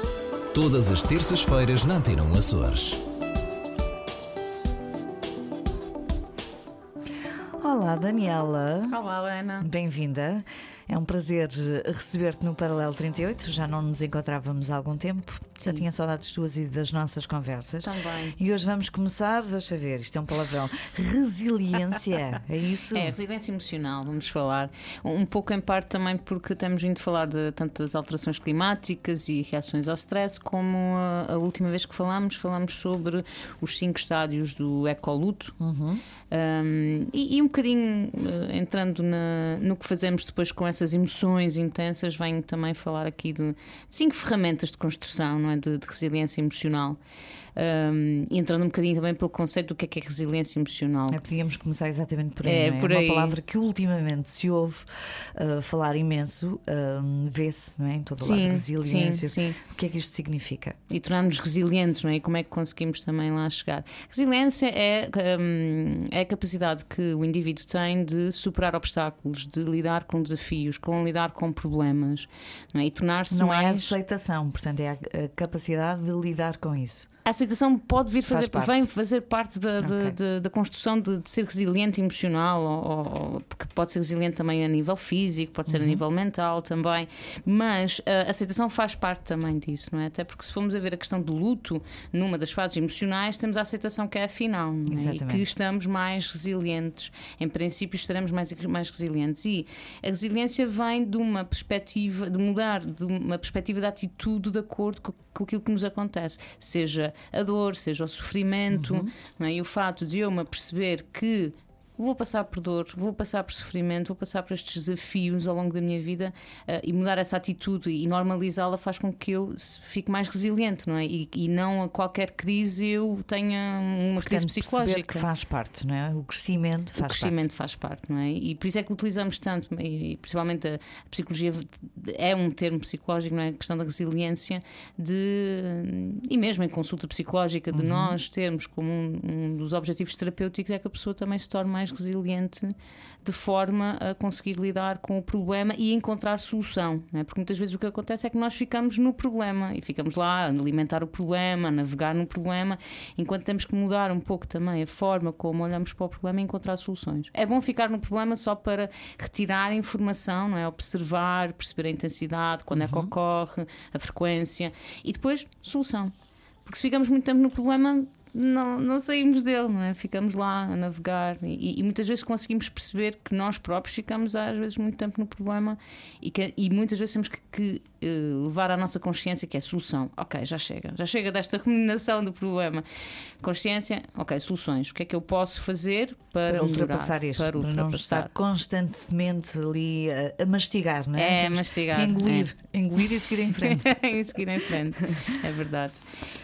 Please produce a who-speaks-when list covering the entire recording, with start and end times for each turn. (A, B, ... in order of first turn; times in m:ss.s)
0:00.5-0:03.0 A
0:07.6-0:09.0 B
0:08.9-0:09.7 C
0:09.6-0:23.2 B
0:17.8-0:18.4 C
0:22.9-0:35.6 C
0:35.6-0:36.0 B
0:36.3-0:47.0 C
0:47.6-0:51.2 C
0:51.1-1:00.8 B
0:52.4-0:53.4 C
0:58.2-0:59.6 C
1:00.9-1:14.0 C
1:13.3-1:17.1 B
1:17.2-2:05.3 C
1:18.3-1:18.9 B
1:19.8-1:20.2 B
1:25.7-1:26.0 B
1:34.9-1:35.5 B
1:48.7-1:49.1 B
2:04.2-2:07.4 B
2:07.0-2:46.1 C
2:17.7-2:18.2 B
2:42.7-2:43.1 B
2:46.7-3:02.8 C
3:03.4-3:08.3 C
3:06.5-3:13.9 B
3:11.2-3:12.5 C
3:13.7-3:16.0 C